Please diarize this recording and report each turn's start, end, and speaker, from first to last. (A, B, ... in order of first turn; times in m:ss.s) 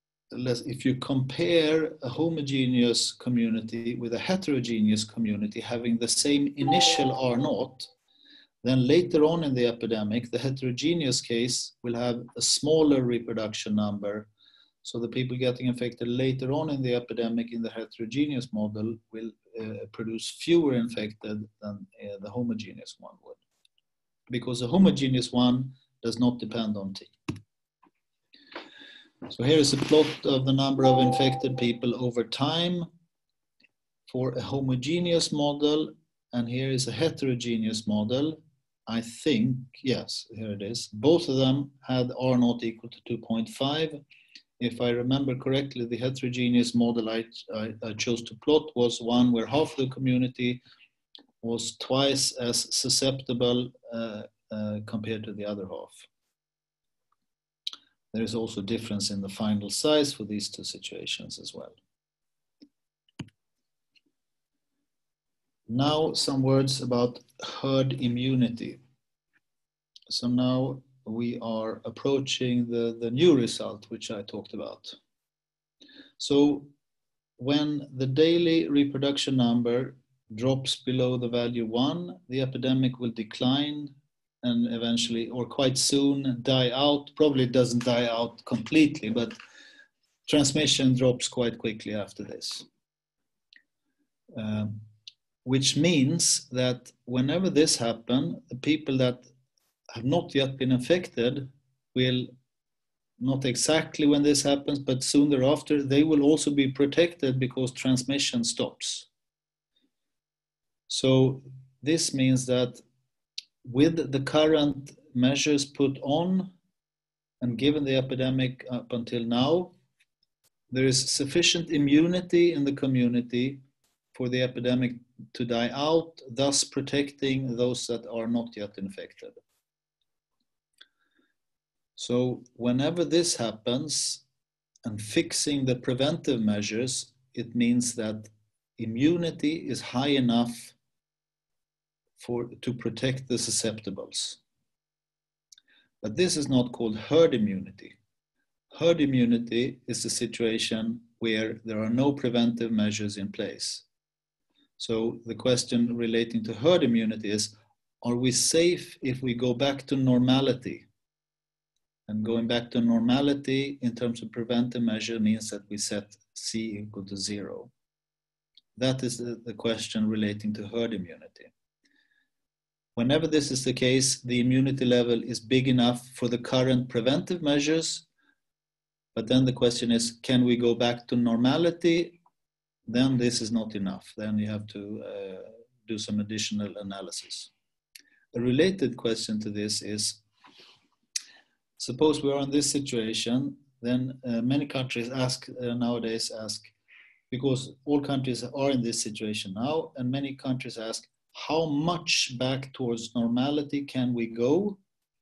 0:00.3-0:07.9 A
0:08.6-0:14.3 A
0:14.8-0:23.4 A
0:24.3-0:27.1 A
0:29.3-0:32.9 A
0:34.1-0:44.0 A
0:44.6-0:50.6 A
0:51.4-0:56.0 A
0:58.1-1:01.8 A
1:05.7-1:08.8 A
1:10.1-1:15.0 A
1:16.2-1:16.7 A
1:17.4-1:29.4 A
1:30.3-1:32.7 A
1:34.3-1:34.8 A
1:35.4-1:39.3 A
1:39.9-1:42.3 A
1:43.2-1:49.1 A
1:50.9-1:52.8 A
1:53.6-1:56.5 A
1:57.4-1:59.7 A
2:00.7-2:03.6 A
2:04.2-2:09.4 A
2:12.0-2:14.2 A
2:14.8-2:20.7 A
2:22.2-2:24.4 A
2:26.0-2:28.0 A
2:28.7-2:33.8 A
2:34.8-2:40.8 A
2:42.1-2:47.7 A
2:48.8-2:51.5 A
2:53.0-2:58.0 A
2:59.2-3:02.2 A
3:02.9-3:07.5 A
3:08.3-3:10.2 A
3:11.8-3:16.7 A
3:17.3-3:24.8 A